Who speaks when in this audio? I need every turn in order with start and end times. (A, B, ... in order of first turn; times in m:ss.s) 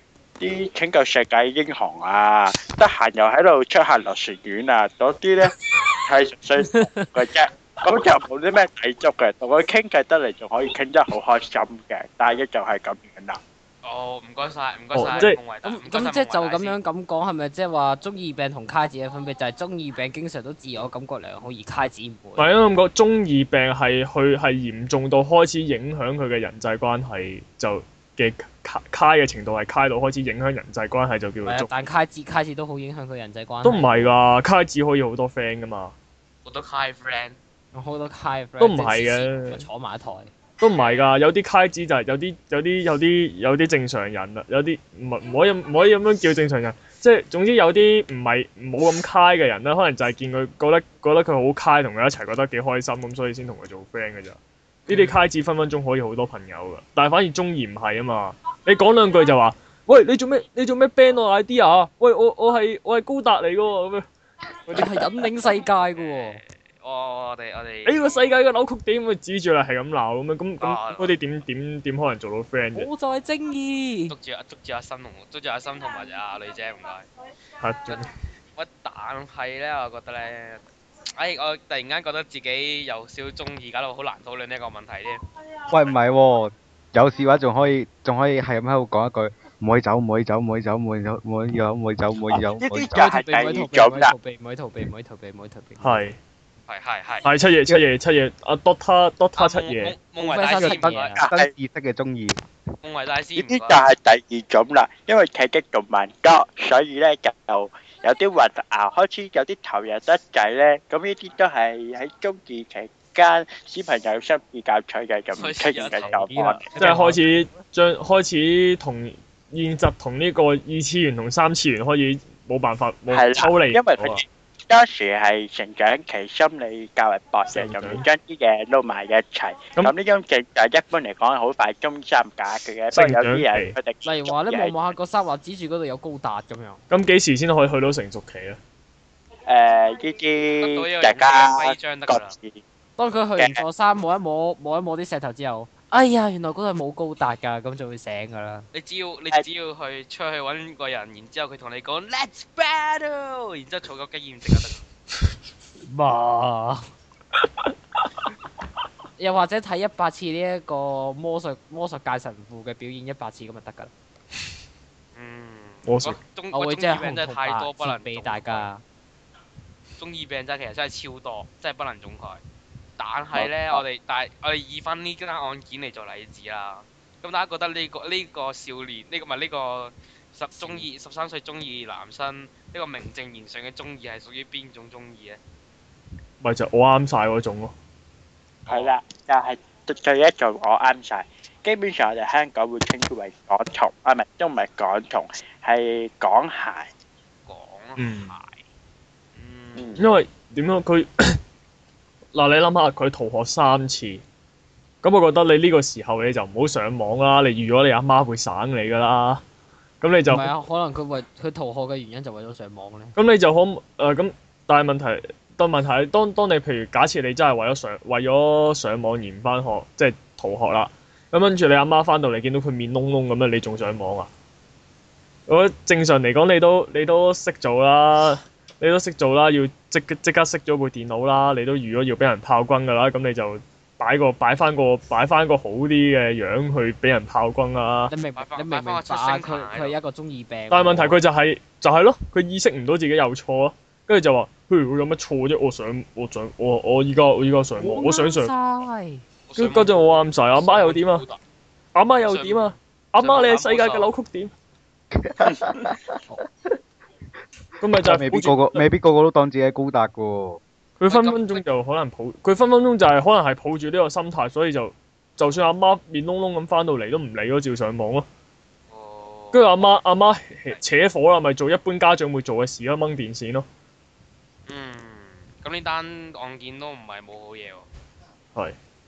0:00.4-0:13.4 A
0:06.6-0:07.1 B
0:13.8-0:16.8 C
0:14.9-0:15.4 D
0:15.2-0:22.5 B
0:22.4-0:31.7 D
0:31.4-0:34.1 B
0:33.6-0:35.9 D
0:36.4-0:37.4 C
0:37.7-0:40.3 B
0:38.6-0:39.6 D
0:40.6-1:04.0 D
0:40.7-0:41.1 C
1:04.7-1:06.4 B
1:05.9-1:08.3 C
1:07.8-1:12.9 D
1:10.6-1:11.1 C
1:12.7-1:14.1 B
1:14.1-1:17.1 C
1:17.6-1:18.1 D
1:18.6-1:20.6 C
1:21.2-1:25.2 C
1:25.7-1:33.1 E
1:32.3-1:34.1 A
1:32.9-1:36.0 B
1:35.8-1:36.2 D
1:36.7-1:37.2 C
1:37.2-1:39.9 D
1:39.4-1:41.3 C
1:40.2-1:41.2 B
1:40.6-1:42.4 E
1:42.8-1:43.8 C
1:43.4-1:56.7 A
1:55.3-1:56.2 C
1:56.0-1:57.4 B
1:56.8-2:04.2 D
2:03.1-2:14.9 A
2:07.5-2:08.0 D
2:12.9-2:13.8 D
2:14.0-2:16.8 B
2:16.9-2:18.6 D
2:19.5-2:22.6 A
2:20.6-2:22.4 C
2:23.0-2:28.7 B
2:23.4-2:23.6 A
2:28.7-2:34.8 C
2:35.8-2:36.9 B
2:39.2-2:43.9 B
2:45.1-2:48.7 C
2:45.8-2:46.2 D
2:46.5-2:48.8 B
2:50.0-2:52.4 C
2:53.0-3:05.4 C
2:53.4-2:53.8 A
3:06.4-3:07.7 D
3:08.7-3:08.9 C
3:08.7-3:16.9 A
3:17.5-3:18.6 C
3:18.0-3:18.4 D
3:19.3-3:20.0 C
3:19.8-3:20.0 A
3:20.0-3:21.4 D
3:22.3-3:24.2 D
3:25.0-3:29.4 D
3:30.0-3:30.5 D
3:30.2-3:33.2 B
3:33.2-3:44.3 D
3:45.5-3:58.1 D
3:58.1-4:01.2 B
3:58.4-4:00.0 C
4:00.7-4:08.5 D
4:07.8-4:09.2 B
4:09.5-4:11.4 C
4:09.6-4:11.2 D
4:11.9-4:14.5 D
4:12.2-4:14.1 C
4:15.1-4:16.0 E
4:17.8-4:18.8 D
4:18.0-4:20.6 E
4:21.0-4:28.2 D
4:21.1-4:21.6 C
4:28.9-4:29.7 C
4:29.5-4:33.6 D
4:34.7-4:37.9 C